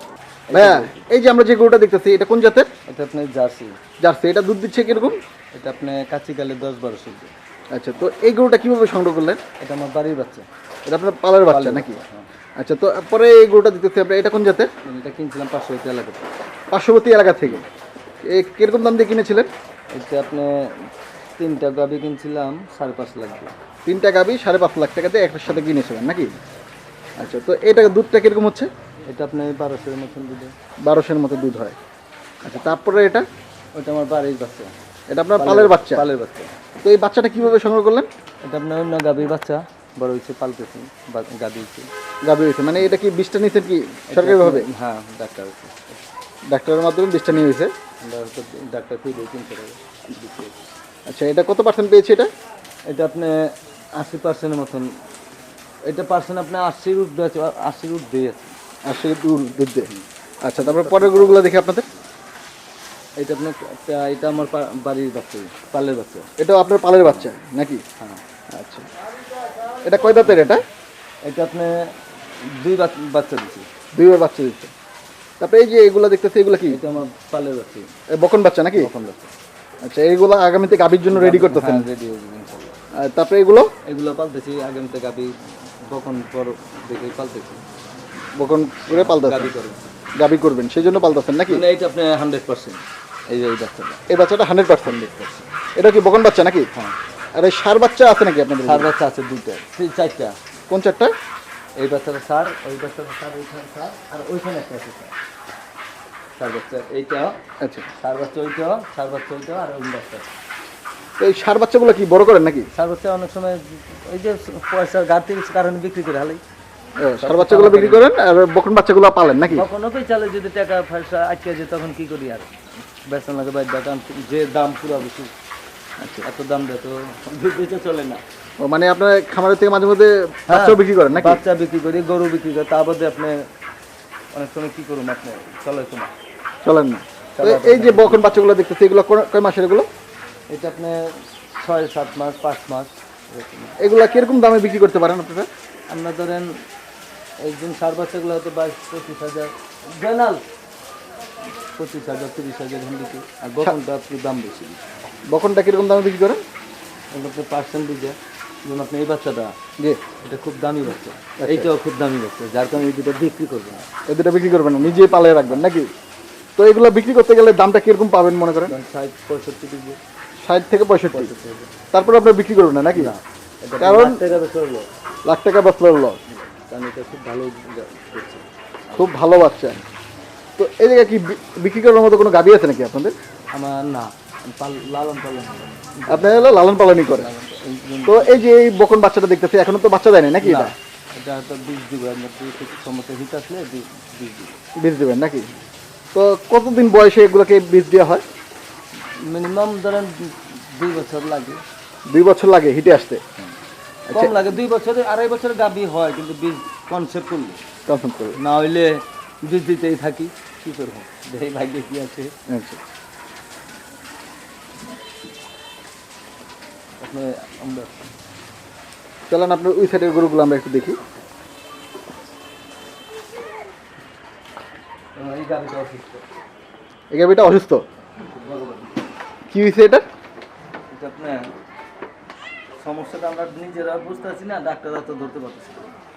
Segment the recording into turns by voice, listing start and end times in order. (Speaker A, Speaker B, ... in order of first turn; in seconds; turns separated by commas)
Speaker A: 0.5-1.0, Speaker B: 0.5-2.7, Speaker A: 2.9-3.8, Speaker B: 4.0-5.2, Speaker A: 5.5-7.3, Speaker B: 7.7-9.4, Speaker A: 9.6-10.5, Speaker B: 10.9-12.0, Speaker A: 11.5-12.3, Speaker B: 12.6-14.7, Speaker A: 14.8-16.3, Speaker B: 16.7-17.6, Speaker B: 18.2-19.5, Speaker A: 19.9-20.5, Speaker A: 21.4-23.5, Speaker B: 23.9-26.3, Speaker B: 27.2-28.7, Speaker A: 29.1-30.5, Speaker B: 30.8-31.8, Speaker B: 32.4-33.3, Speaker A: 33.7-34.7, Speaker B: 35.1-36.1, Speaker A: 35.4-36.5, Speaker B: 36.8-38.1, Speaker A: 38.4-41.9, Speaker B: 42.2-44.7, Speaker A: 44.1-46.0, Speaker B: 46.5-47.7, Speaker A: 48.0-50.5, Speaker B: 51.1-52.3, Speaker A: 52.9-53.4, Speaker A: 54.0-54.9, Speaker A: 55.9-58.5, Speaker B: 58.9-59.9, Speaker B: 60.4-61.9, Speaker A: 60.6-61.5, Speaker A: 63.2-66.3, Speaker B: 66.4-67.8, Speaker B: 68.5-68.9, Speaker B: 69.8-70.7, Speaker A: 70.2-70.6, Speaker A: 71.2-73.7, Speaker B: 73.9-74.7, Speaker B: 75.4-76.8, Speaker A: 76.7-77.9, Speaker B: 78.1-78.9, Speaker A: 78.8-79.3, Speaker B: 79.8-81.9, Speaker A: 81.1-82.8, Speaker B: 83.0-83.7, Speaker A: 83.9-85.3, Speaker A: 85.9-87.6, Speaker B: 88.4-89.5, Speaker A: 88.9-89.9, Speaker B: 90.2-91.6, Speaker A: 91.5-94.0, Speaker B: 94.1-95.2, Speaker A: 94.9-95.4, Speaker B: 95.8-96.7, Speaker B: 97.4-98.9, Speaker A: 98.6-100.4, Speaker B: 100.7-101.1, Speaker A: 101.8-105.1, Speaker A: 106.4-107.4, Speaker B: 107.6-107.9, Speaker A: 108.0-110.3, Speaker B: 111.2-112.7, Speaker A: 112.8-116.4, Speaker B: 117.0-119.7, Speaker A: 117.2-118.1, Speaker A: 119.5-122.5, Speaker A: 123.1-125.3, Speaker B: 126.0-126.2, Speaker A: 126.2-128.2, Speaker B: 128.6-131.4, Speaker A: 130.5-133.4, Speaker A: 134.3-136.1, Speaker B: 136.6-139.9, Speaker A: 137.4-138.4, Speaker A: 140.5-141.0, Speaker A: 141.6-143.8, Speaker B: 143.8-145.5, Speaker A: 145.9-146.5, Speaker A: 147.4-150.4, Speaker A: 151.8-154.8, Speaker B: 155.3-156.4, Speaker A: 157.1-159.6, Speaker A: 160.2-163.9, Speaker B: 161.4-161.7, Speaker B: 164.1-165.9, Speaker B: 166.6-168.7, Speaker A: 168.7-170.0, Speaker B: 170.4-171.3, Speaker A: 171.1-171.7, Speaker B: 171.9-173.1, Speaker A: 172.9-174.9, Speaker B: 173.8-174.2, Speaker B: 175.2-176.2, Speaker A: 176.3-179.1, Speaker B: 178.9-179.8, Speaker B: 180.6-183.1, Speaker A: 183.5-188.4, Speaker B: 186.1-187.3, Speaker B: 188.1-190.8, Speaker A: 190.4-194.6, Speaker B: 194.8-195.5, Speaker B: 196.1-198.2, Speaker A: 199.2-201.6, Speaker B: 202.1-203.2, Speaker B: 204.1-204.4, Speaker A: 204.1-207.6, Speaker B: 207.9-208.4, Speaker A: 208.4-212.3, Speaker B: 212.5-212.8, Speaker A: 217.0-218.1, Speaker B: 219.3-221.0, Speaker A: 225.2-226.2, Speaker B: 227.1-227.8, Speaker A: 228.2-229.1, Speaker B: 229.5-230.1, Speaker A: 230.9-231.5, Speaker A: 232.8-235.9